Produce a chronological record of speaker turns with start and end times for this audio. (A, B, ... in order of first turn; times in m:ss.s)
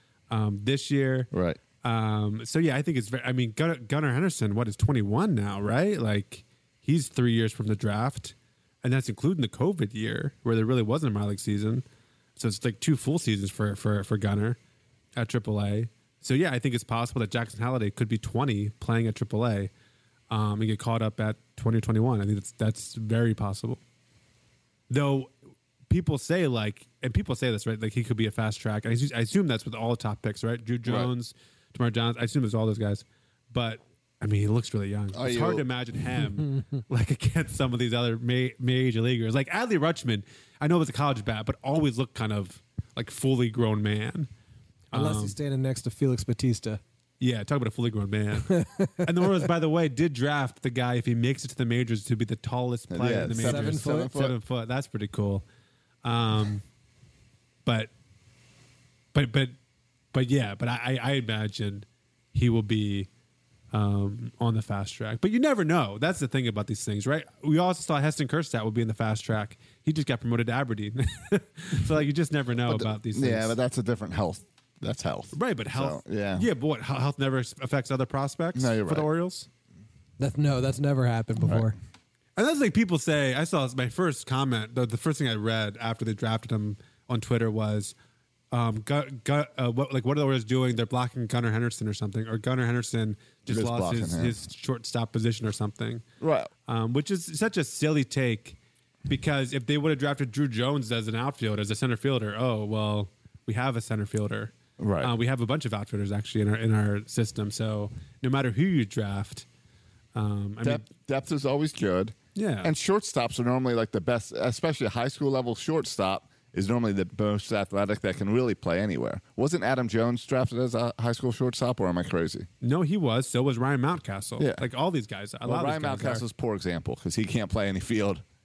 0:00.3-0:01.3 A
0:01.3-0:01.6 B
0:01.8-0:11.8 A
0:12.4-0:14.6 A
0:15.2-0:19.7 A
0:20.3-0:23.8 A
0:24.9-0:25.3 A
0:25.9-0:44.3 A
0:30.8-0:31.1 B
0:35.1-0:35.7 B
0:44.9-0:45.4 A
0:44.9-0:46.8 C
0:47.2-0:55.4 A
0:48.5-0:49.5 C
0:52.9-0:54.4 B
0:53.4-0:54.1 C
0:56.0-0:56.6 A
0:57.6-0:57.9 A
0:59.1-0:59.6 A
1:00.1-1:03.1 A
1:03.7-1:13.6 A
1:12.7-1:16.5 B
1:15.4-1:19.5 A
1:18.6-1:19.1 B
1:20.2-1:21.8 C
1:21.4-1:21.7 B
1:22.4-1:28.0 A
1:28.5-1:36.0 A
1:33.5-1:34.4 B
1:36.2-1:36.5 B
1:36.7-1:49.4 A
1:44.8-1:45.1 B
1:50.2-1:50.8 A
1:50.6-2:02.5 B
1:52.4-1:52.7 A
2:02.6-2:06.2 A
2:04.4-2:04.6 B
2:05.5-2:08.2 B